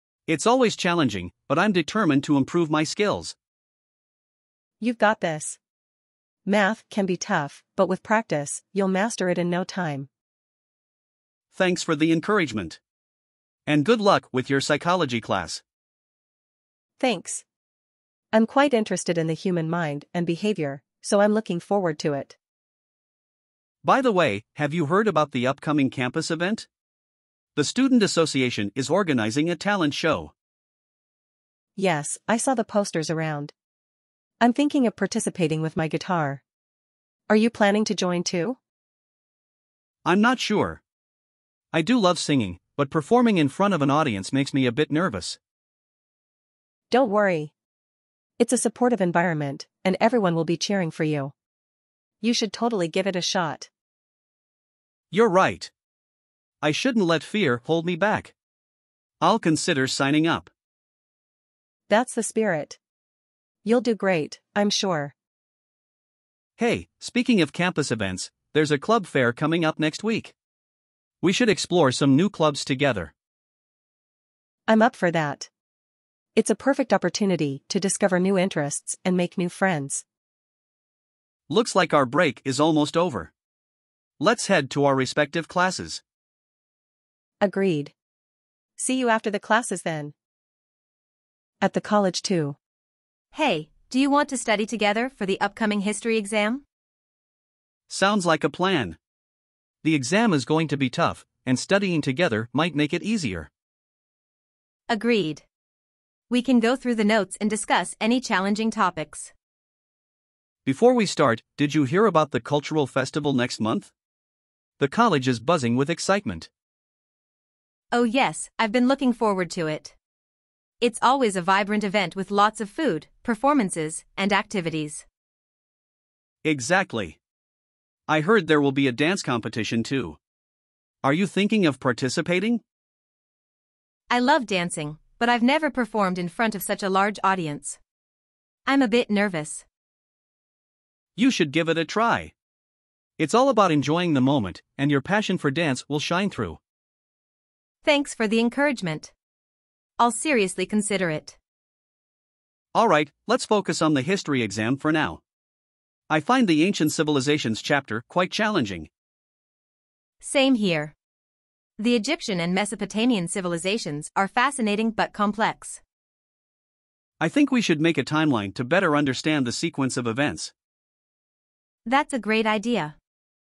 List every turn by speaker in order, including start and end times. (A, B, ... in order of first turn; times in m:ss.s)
0:00.3-0:03.4 A
0:04.8-0:05.6 B
0:06.5-0:10.1 B
0:11.5-0:12.8 A
0:13.7-0:15.6 A
0:17.0-0:17.4 B
0:18.3-0:22.4 B
0:23.8-0:26.7 A
0:27.6-0:30.3 A
0:31.8-0:33.5 B
0:34.4-0:36.4 B
0:37.3-0:38.6 B
0:40.0-0:40.8 A
0:41.7-0:45.4 A
0:46.9-0:47.5 B
0:48.4-0:51.3 B
0:52.2-0:53.7 B
0:55.1-0:55.7 A
0:56.6-0:58.3 A
0:59.2-1:00.5 A
1:01.9-1:02.8 B
1:03.6-1:05.1 B
1:06.6-1:10.3 A
1:11.2-1:13.1 A
1:14.7-1:15.5 B
1:16.4-1:20.0 B
1:21.5-1:23.3 A
1:24.2-1:26.0 A
1:27.4-1:27.9 B
1:28.8-1:30.1 B
1:31.6-1:32.6 B
1:33.3-1:36.6 C
1:37.9-1:39.0 A
1:39.8-1:43.5 A
1:44.9-1:45.4 C
1:46.3-1:49.3 C
1:50.6-1:53.9 A
1:54.8-1:56.5 A
1:57.9-2:00.0 C
2:00.8-2:05.0 C
2:06.4-2:07.2 A
2:08.1-2:10.2 A
2:11.0-2:12.6 A
2:14.1-2:17.8 C
2:18.7-2:19.6 C
2:21.2-2:22.3 A
2:23.2-2:26.6 A
2:27.8-2:29.1 C
2:30.0-2:31.4 C
2:32.7-2:35.2 A
2:36.1-2:38.9 A
2:40.2-2:40.9 C
2:41.8-2:45.8 C
2:47.2-2:50.5 A
2:51.9-2:53.0 C